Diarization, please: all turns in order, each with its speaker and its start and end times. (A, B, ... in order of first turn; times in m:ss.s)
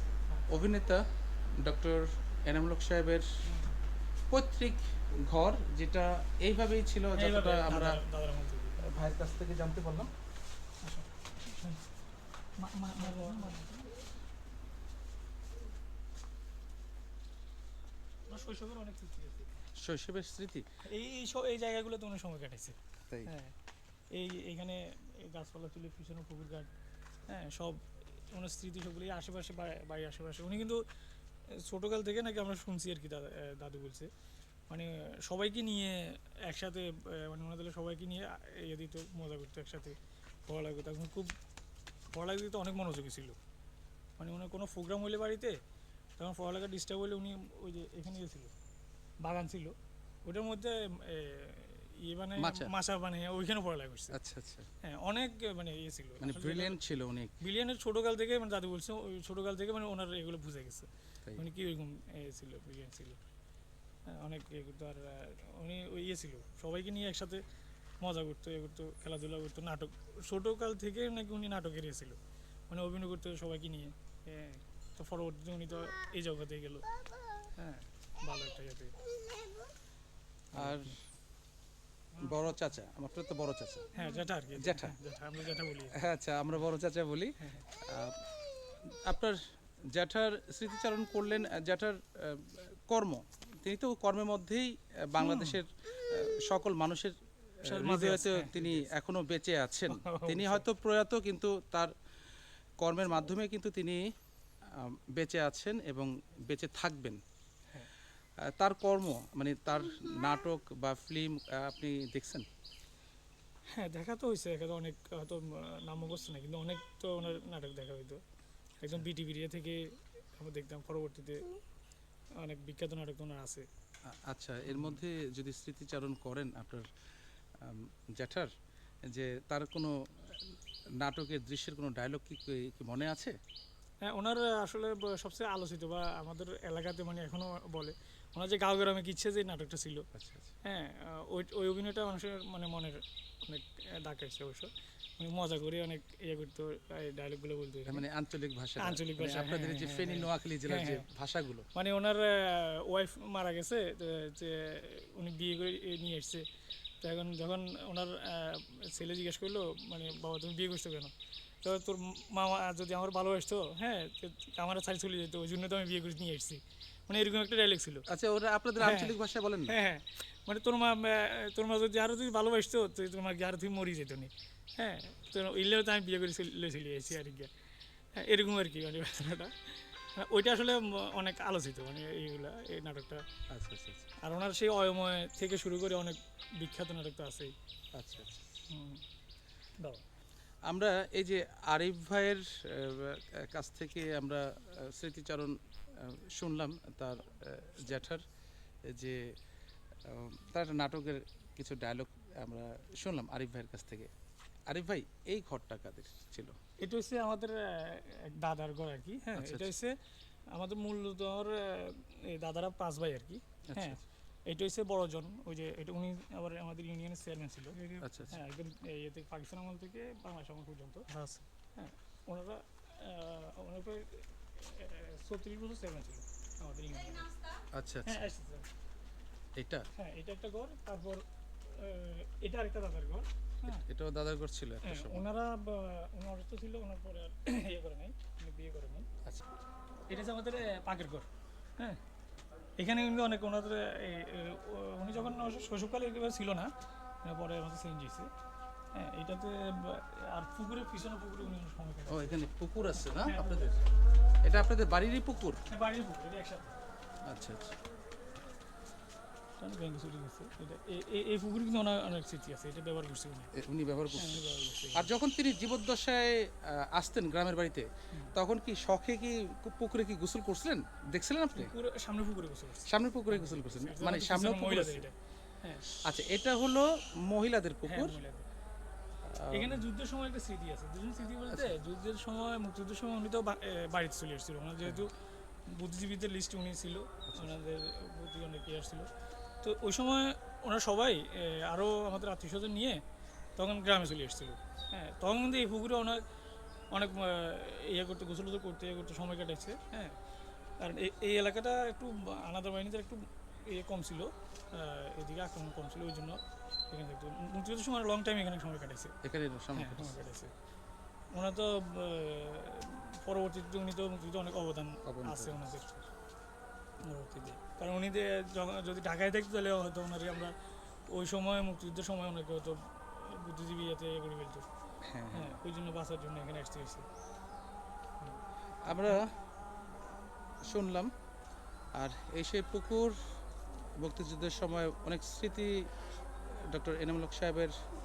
0:00.5-0:03.2 A
0:03.4-0:03.7 B
0:04.3-0:08.0 A
0:07.2-0:08.8 B
0:08.8-0:10.1 A
0:10.8-0:11.8 B
0:12.6-0:13.9 B
0:18.3-0:19.5 B
0:19.8-0:20.6 A
0:20.9-0:23.6 B
0:24.1-0:26.7 B
0:27.3-0:30.8 B
0:31.5-0:34.1 B
0:34.7-0:41.3 B
0:42.1-0:43.4 B
0:44.2-0:45.6 B
0:46.2-0:48.5 B
0:49.2-0:54.2 B
0:52.4-0:52.7 A
0:54.1-0:54.7 A
0:54.8-0:56.8 B
0:56.2-0:57.3 A
0:57.4-1:03.2 B
1:04.1-1:07.4 B
1:08.0-1:12.2 B
1:12.7-1:16.9 B
1:17.6-1:19.0 B
1:20.5-1:21.0 B
1:20.5-1:21.0 A
1:22.1-1:22.6 B
1:22.2-1:23.9 A
1:23.9-1:26.6 B
1:24.5-1:24.9 A
1:25.9-1:28.3 A
1:28.9-1:29.4 A
1:29.9-1:41.9 A
1:35.2-1:35.6 B
1:37.6-1:38.9 B
1:39.9-1:40.6 B
1:42.8-1:44.0 A
1:44.7-1:47.2 A
1:48.4-1:52.5 A
1:53.7-1:58.2 B
1:58.8-2:01.6 B
2:02.4-2:03.7 B
2:04.1-2:06.9 A
2:04.7-2:05.0 B
2:07.6-2:08.5 A
2:09.1-2:13.4 A
2:14.1-2:20.0 B
2:20.1-2:20.5 A
2:20.6-2:28.0 B
2:27.9-2:31.7 A
2:28.8-2:31.1 B
2:31.7-2:36.4 B
2:37.0-2:48.0 B
2:48.1-2:49.8 A
2:48.8-2:49.1 B
2:49.7-2:57.5 B
2:58.2-3:03.2 B
3:03.5-3:04.1 A
3:04.2-3:07.5 B
3:07.9-3:08.4 A
3:08.7-3:09.0 B
3:10.7-3:18.2 A
3:18.8-3:19.2 A
3:20.0-3:24.1 A
3:24.7-3:26.5 A
3:26.8-3:30.0 B
3:29.4-3:29.7 A
3:30.5-3:48.7 B
3:33.7-3:34.0 A
3:38.0-3:38.4 A
3:47.7-3:48.3 A
3:49.6-3:49.9 A
3:49.9-3:53.8 B
3:53.6-3:55.3 A
3:54.8-3:59.1 B
4:00.1-4:02.0 B
4:02.8-4:08.3 B
4:08.9-4:12.4 B
4:12.1-4:13.8 A
4:13.0-4:13.7 B
4:14.4-4:15.6 A
4:15.7-4:16.8 B
4:17.3-4:17.7 A
4:19.6-4:23.5 B
4:23.5-4:31.7 A
4:24.1-4:25.1 B
4:31.5-4:36.0 B
4:32.8-4:35.1 A
4:35.9-4:38.2 A
4:37.8-4:38.5 B
4:39.2-4:39.8 A
4:39.5-4:45.1 B
4:45.7-4:49.1 B
4:47.3-4:47.6 A
4:49.6-4:53.0 B
4:53.6-4:56.2 B
4:56.9-5:00.2 B
5:00.8-5:09.1 B
5:09.2-5:10.2 A
5:09.7-5:10.5 B
5:11.3-5:16.0 B
5:15.0-5:15.8 A
5:17.0-5:20.5 B
5:21.1-5:24.6 B
5:25.0-5:25.6 A
5:25.3-5:27.1 B
5:28.2-5:29.2 B
5:28.8-5:29.3 A
5:30.6-5:31.1 A
5:32.0-5:33.2 A
5:34.0-5:35.7 A
5:36.5-5:37.8 A